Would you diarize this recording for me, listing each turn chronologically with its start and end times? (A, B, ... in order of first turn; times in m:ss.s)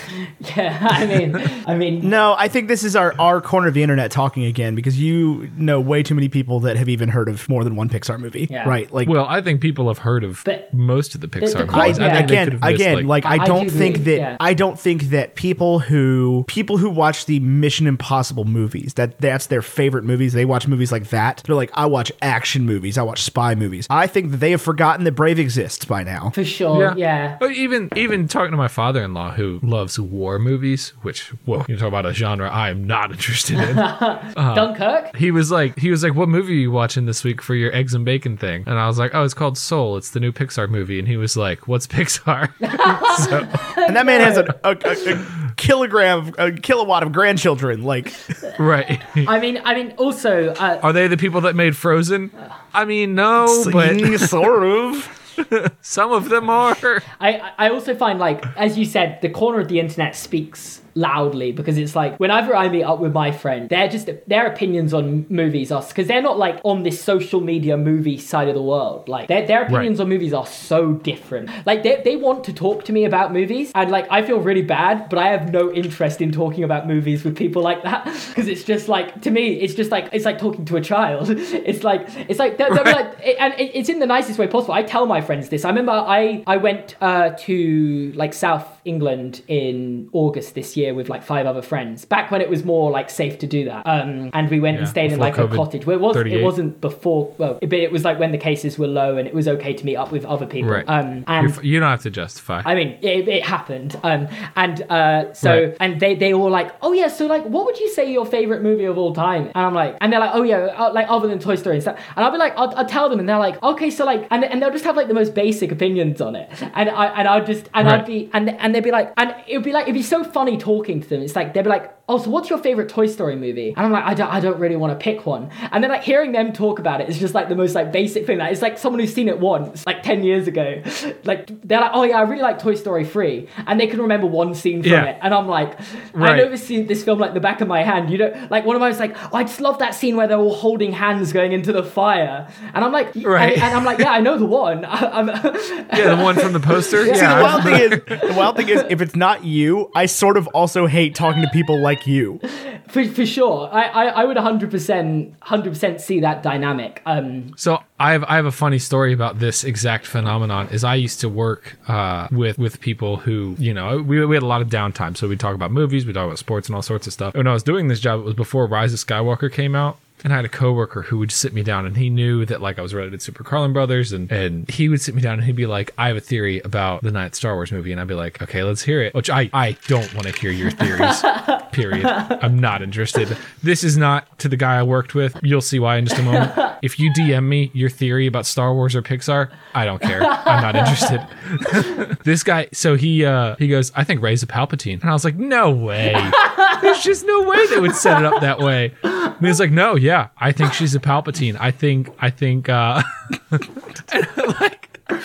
0:00.4-0:02.1 A
0:02.0-0:09.1 B
0:08.5-0:08.8 A
0:09.0-0:13.1 C
0:10.4-0:10.7 A
0:11.4-0:12.3 A
0:11.7-0:26.3 B
0:13.2-0:14.4 A
0:26.3-0:27.4 A
0:26.7-0:43.6 C
0:33.6-0:35.1 A
0:42.6-0:45.0 A
0:43.8-0:48.2 B
0:48.6-0:49.3 C
0:49.1-0:50.8 A
0:50.8-0:54.4 C
0:53.4-0:55.1 B
0:55.4-0:57.0 C
0:57.1-1:41.6 A
1:22.7-1:23.0 C
1:34.7-1:36.5 C
1:40.6-1:40.9 C
1:41.4-1:42.7 C
1:42.6-2:28.9 A
1:45.4-1:45.7 C
2:14.8-2:15.1 C
2:16.2-2:16.5 C
2:23.2-2:24.1 C
2:25.9-2:28.0 C
2:27.0-2:32.4 B
2:32.5-2:37.5 A
2:37.6-3:25.0 C
3:01.2-3:02.4 A
3:06.3-3:06.7 A
3:10.2-3:11.7 A
3:16.3-3:16.9 A